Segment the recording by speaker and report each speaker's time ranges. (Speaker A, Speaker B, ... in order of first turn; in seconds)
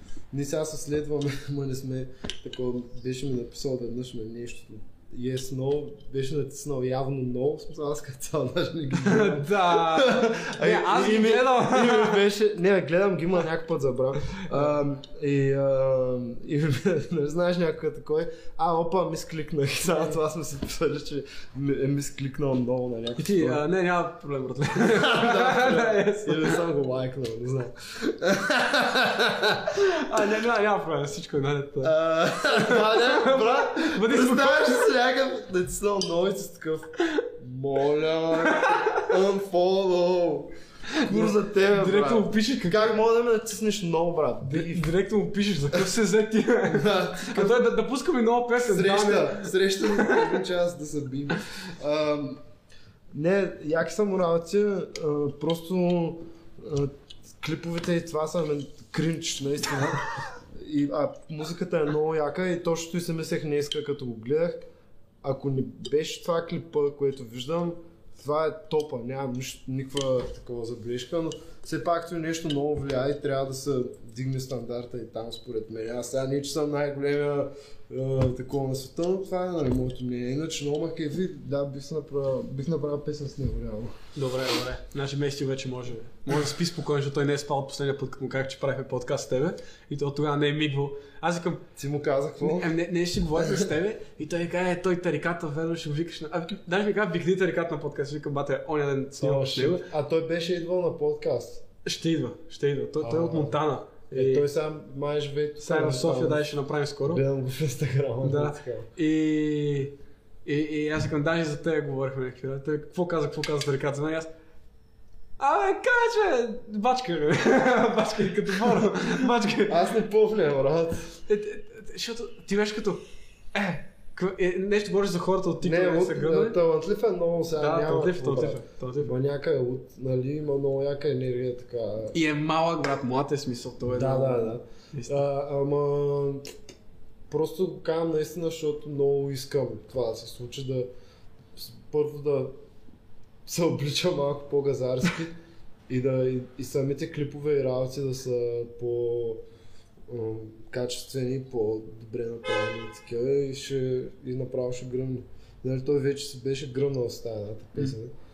Speaker A: 0.3-23.6, 24.9-29.8, 31.8-44.9, 46.7-47.7, 48.7-52.4, 53.1-64.6, 65.2-84.0, 91.8-92.7, 99.2-101.6, 103.0-103.6, 104.1-106.4, 107.1-108.9, 119.7-121.1, 125.6-132.2, 133.8-136.6, 137.3-140.9, 141.6-142.6, 143.5-145.4, 145.9-149.4, 150.1-158.1
Speaker B: 8.9-12.2, 23.2-26.6, 29.8-34.9, 40.9-42.9, 44.5-50.3, 84.2-91.6, 92.4-99.9, 101.8-104.5, 105.6-107.2, 108.2-109.9, 110.5-114.3, 115.4-119.9, 121.3-123.0, 123.5-126.6, 127.6-129.1, 132.1-135.2